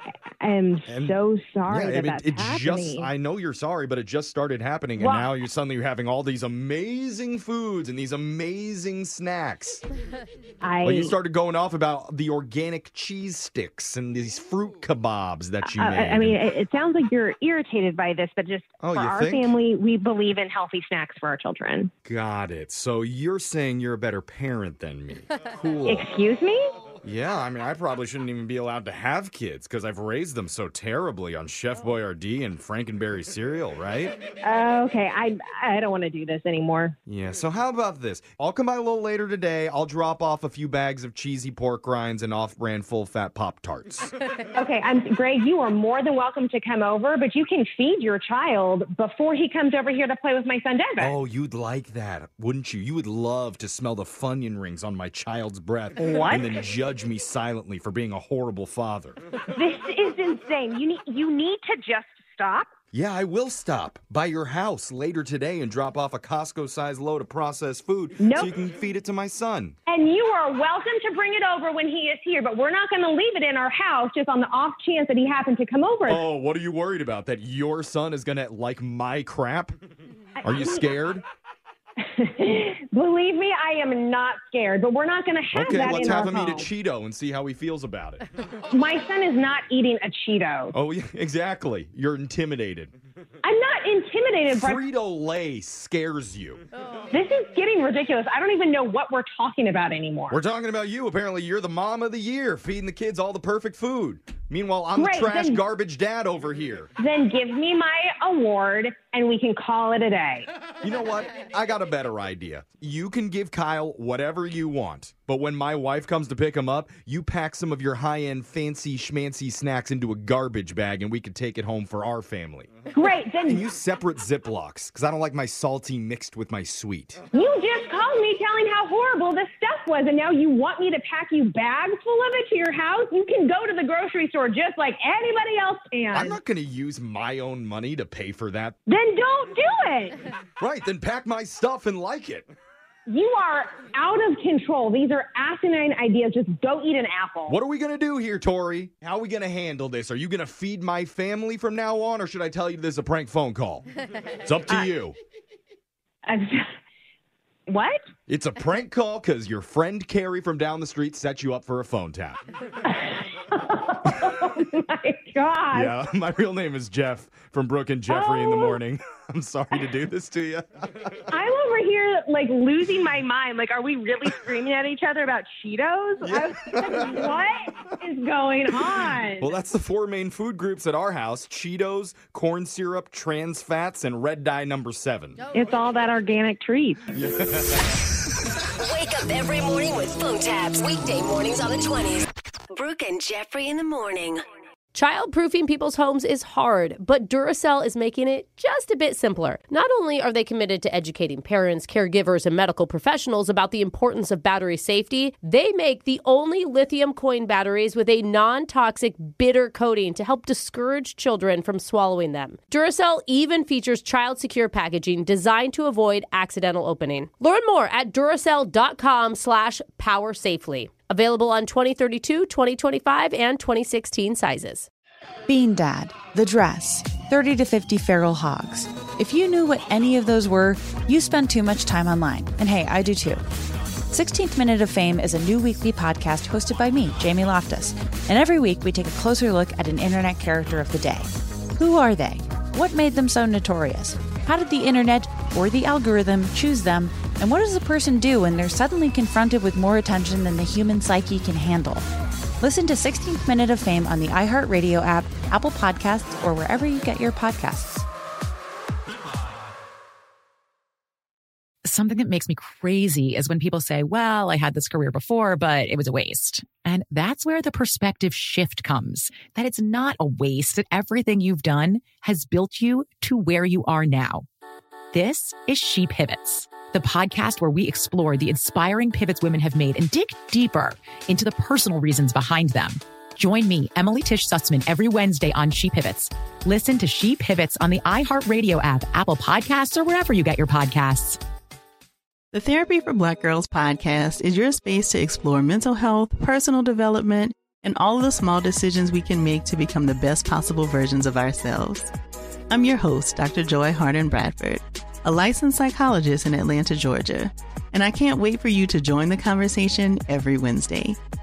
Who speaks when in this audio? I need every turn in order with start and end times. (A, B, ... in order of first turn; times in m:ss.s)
0:00.4-0:03.1 A
0:00.9-0:09.8 B
0:05.0-0:05.3 A
0:10.6-0:11.2 A
0:10.8-0:16.5 B
0:15.6-0:21.9 A
0:18.8-0:19.6 B
0:22.0-0:26.1 B
0:25.8-0:26.7 A
0:27.0-0:34.2 B
0:34.4-0:37.0 A
0:37.1-0:44.1 B
0:44.6-0:51.2 A
0:51.0-0:59.2 B
0:56.0-0:56.6 A
0:59.5-1:02.7 A
1:02.9-1:09.8 B
1:08.2-1:08.5 A
1:09.9-1:16.2 A
1:16.1-1:19.8 B
1:20.4-1:20.9 A
1:20.4-1:21.2 B
1:22.0-1:26.7 A
1:25.5-1:28.2 B
1:28.7-1:30.8 A
1:30.7-1:32.9 B
1:33.4-1:34.8 A
1:34.5-1:36.6 B
1:37.1-1:40.4 A
1:40.3-1:46.9 B
1:45.0-1:45.6 A
1:47.0-1:50.5 A
1:50.8-2:07.2 B
2:02.9-2:03.6 A
2:07.3-2:16.4 A
2:16.1-2:18.8 B
2:18.9-2:20.2 A
2:20.6-2:22.5 B
2:23.1-2:27.6 A
2:27.5-2:33.9 B
2:34.4-2:35.2 B
2:36.3-2:36.6 A
2:37.7-2:38.1 A
2:38.3-2:42.4 B
2:42.8-2:45.9 A
2:45.7-2:51.4 B
2:48.1-2:48.8 A
2:51.3-2:59.5 A
2:56.2-2:57.9 B
2:58.7-3:05.4 B
3:05.5-3:07.0 A
3:07.1-3:07.9 B
3:08.8-3:14.4 C
3:15.0-3:44.9 D
3:45.5-3:53.4 E
3:54.1-4:12.1 E
4:12.6-4:18.1 E
4:21.9-4:34.5 F
4:35.1-4:51.4 F
4:52.5-5:02.1 G
5:02.7-5:11.2 G